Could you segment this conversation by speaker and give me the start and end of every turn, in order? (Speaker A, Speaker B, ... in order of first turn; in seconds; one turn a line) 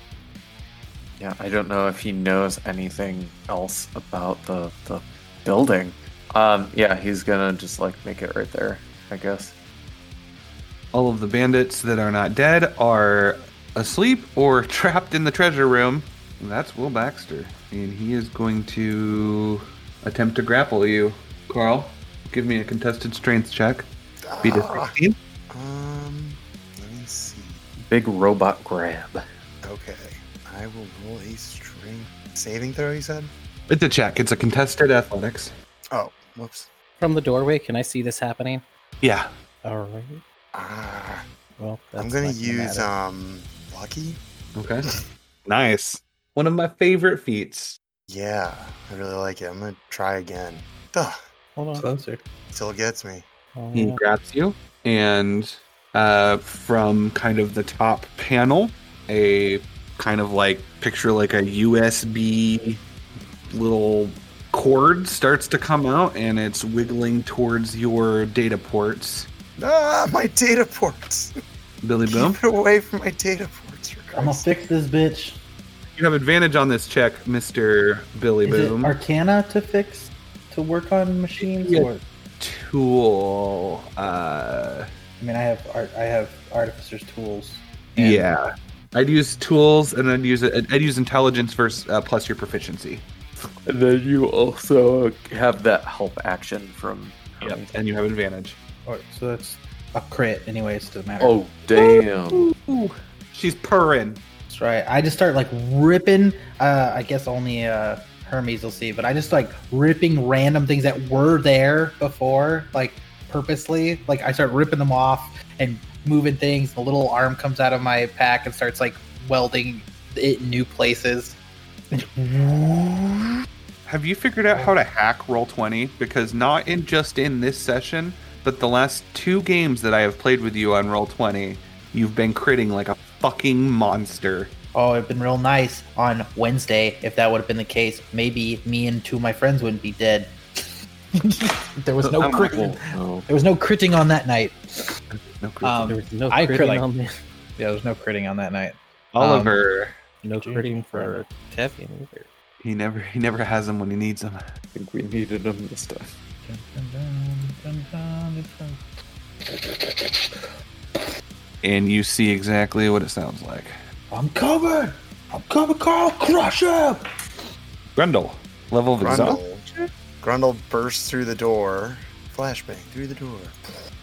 Speaker A: 1.2-9.5
Speaker B: 10.9-23.9
Speaker C: 24.2-24.9
Speaker B: 24.4-25.1
Speaker C: 25.5-27.6
Speaker A: 27.8-29.2
Speaker C: 29.6-33.3
Speaker B: 33.7-35.5
Speaker C: 35.9-36.7
Speaker D: 37.0-38.6
Speaker B: 39.0-39.3
Speaker D: 39.6-40.2
Speaker C: 40.5-41.2
Speaker D: 41.6-42.9
Speaker C: 42.0-44.2
Speaker B: 44.5-44.9
Speaker B: 45.5-47.8
Speaker C: 48.1-51.2
Speaker D: 51.5-51.9
Speaker E: 51.8-52.2
Speaker C: 52.5-53.2
Speaker D: 53.5-54.0
Speaker B: 53.7-62.8
Speaker B: 63.5-69.3
Speaker C: 69.6-71.3
Speaker B: 71.8-72.4
Speaker C: 72.1-74.7
Speaker E: 74.1-75.4
Speaker B: 75.9-78.9
Speaker E: 78.5-82.0
Speaker B: 81.3-84.9
Speaker E: 85.2-88.3
Speaker B: 88.0-93.0
Speaker A: 93.7-97.8
Speaker B: 97.4-98.6
Speaker E: 98.8-101.4
Speaker A: 101.2-102.5
Speaker B: 101.7-104.2
Speaker E: 104.5-121.4
Speaker E: 121.9-123.3
Speaker B: 123.8-134.5
Speaker E: 124.5-124.8
Speaker E: 134.7-140.3
Speaker E: 141.2-144.8
Speaker A: 142.0-143.3
Speaker B: 142.2-142.7
Speaker B: 145.1-145.9
Speaker E: 145.6-146.8
Speaker D: 145.9-147.1
Speaker E: 147.6-149.6
Speaker B: 149.1-149.9
Speaker D: 150.2-152.3
Speaker E: 150.3-151.2
Speaker B: 152.6-154.4
Speaker A: 154.7-156.1
Speaker E: 156.4-158.8
Speaker E: 159.4-160.4
Speaker B: 161.6-163.7
Speaker E: 164.1-167.0
Speaker B: 167.9-169.8
Speaker C: 169.0-169.6
Speaker C: 170.2-173.6